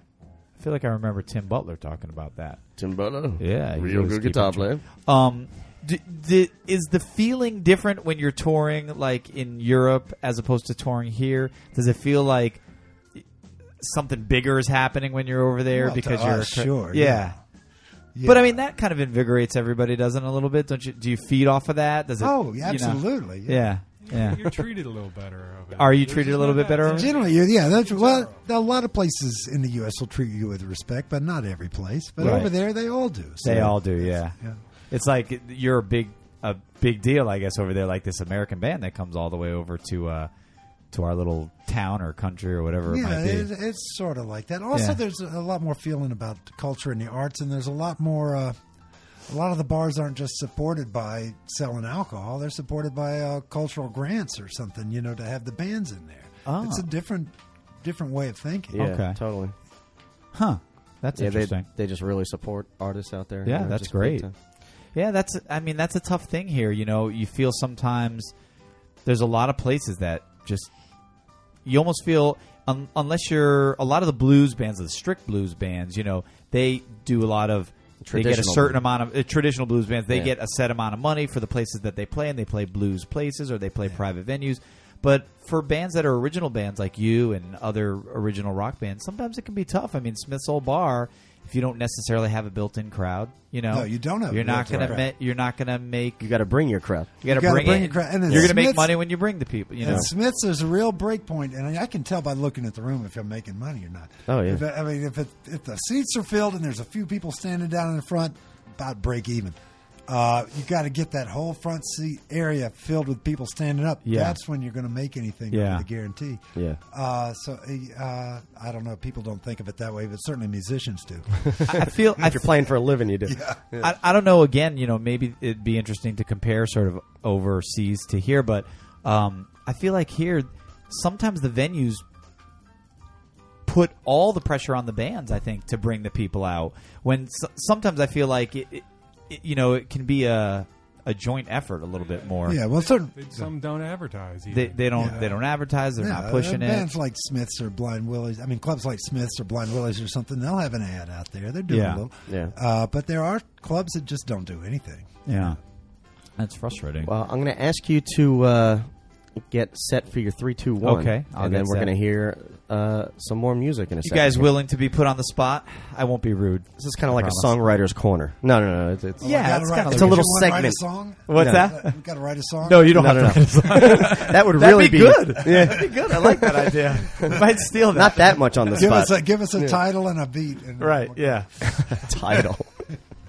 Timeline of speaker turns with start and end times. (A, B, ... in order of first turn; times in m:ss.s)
0:00.6-0:02.6 A
0:02.8-0:04.8 B
0:03.4-0:12.6 A
0:13.8-0:17.4 A
0:15.7-0:17.4 C
0:18.1-0:18.6 C
0:18.2-0:24.6 A
0:22.2-0:23.7 C
0:24.0-0:28.4 D
0:25.7-0:27.1 A
0:26.8-0:34.6 C
0:32.2-0:32.5 A
0:33.4-0:34.4 A
0:34.9-0:40.3 A
0:40.9-0:43.5 A
0:42.9-0:48.6 C
0:44.7-0:45.0 A
0:49.3-0:58.8 C
0:56.4-0:56.9 A
0:58.7-0:59.5 B
0:58.8-0:59.2 A
1:00.3-1:01.6 A
1:01.2-1:04.3 B
1:03.4-1:04.3 A
1:04.9-1:08.3 A
1:09.0-1:10.7 A
1:11.6-1:36.3 A
1:18.0-1:18.8 B
1:33.7-1:35.1 C
1:36.2-1:37.1 B
1:37.2-1:40.1 A
1:37.2-1:39.0 C
1:38.3-1:38.5 B
1:39.8-2:01.5 C
1:44.3-1:44.6 B
1:54.0-1:54.4 A
1:55.5-1:55.8 A
2:01.4-2:03.9 B
2:01.6-2:02.5 A
2:03.2-2:03.6 C
2:03.8-2:12.0 A
2:13.6-2:22.6 A
2:22.0-2:25.3 D
2:22.4-2:23.5 C
2:24.5-2:26.9 A
2:24.9-2:25.3 C
2:26.0-2:35.6 C
2:31.7-2:32.0 A
2:32.3-2:32.5 B
2:35.2-2:35.6 A
2:36.4-2:37.1 A
2:37.0-2:38.9 B
2:39.4-2:44.5 B
2:40.8-2:41.9 A
2:44.0-2:47.5 A
2:46.8-2:50.8 B
2:49.2-2:53.3 C
2:49.2-2:50.3 A
2:51.3-2:52.0 A
2:51.4-2:51.7 B
2:52.6-2:58.9 A
2:52.9-2:57.4 B
2:55.5-2:55.9 C
2:57.9-2:59.8 B
2:58.8-3:02.5 C
3:00.8-3:01.9 A
3:01.6-3:02.9 B